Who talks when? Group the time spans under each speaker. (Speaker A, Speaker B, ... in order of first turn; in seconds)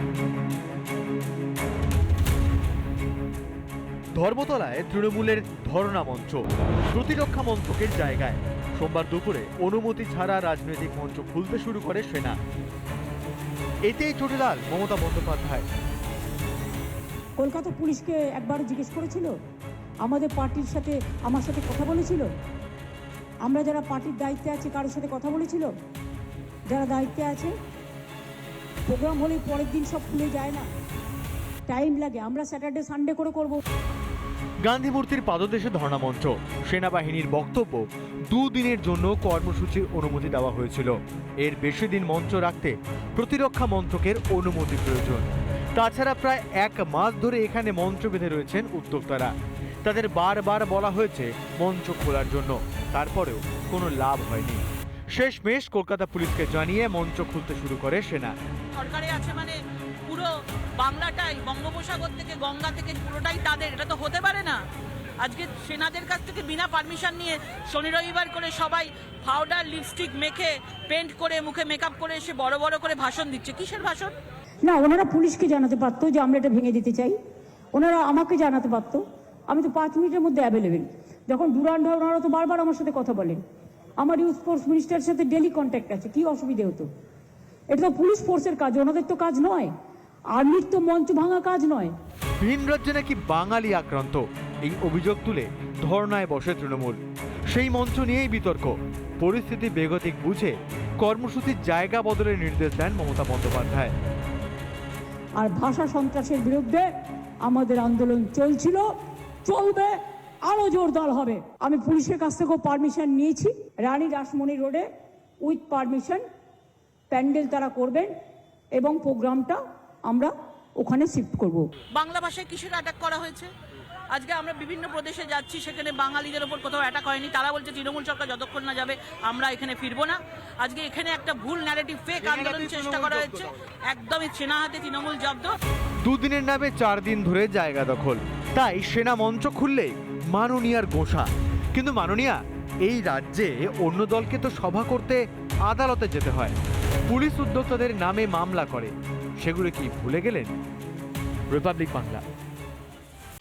Speaker A: 4.2-12.4, 13.9-15.7, 34.6-49.3, 49.9-58.4, 92.4-97.0, 97.5-103.9, 132.4-133.2, 136.0-146.6, 147.1-150.5, 151.5-152.2
Speaker B: 17.4-19.3, 20.0-22.3, 23.4-25.7, 26.7-27.6, 28.9-30.7, 31.7-33.6, 74.6-77.2, 77.7-83.4, 84.0-86.9, 87.7-89.7, 90.3-91.9, 105.4-106.9, 107.4-108.9, 109.4-114.9, 115.4-116.2, 117.1-118.1, 118.8-121.7
Speaker C: 58.7-64.6, 65.2-74.1, 121.9-123.5, 124.1-135.6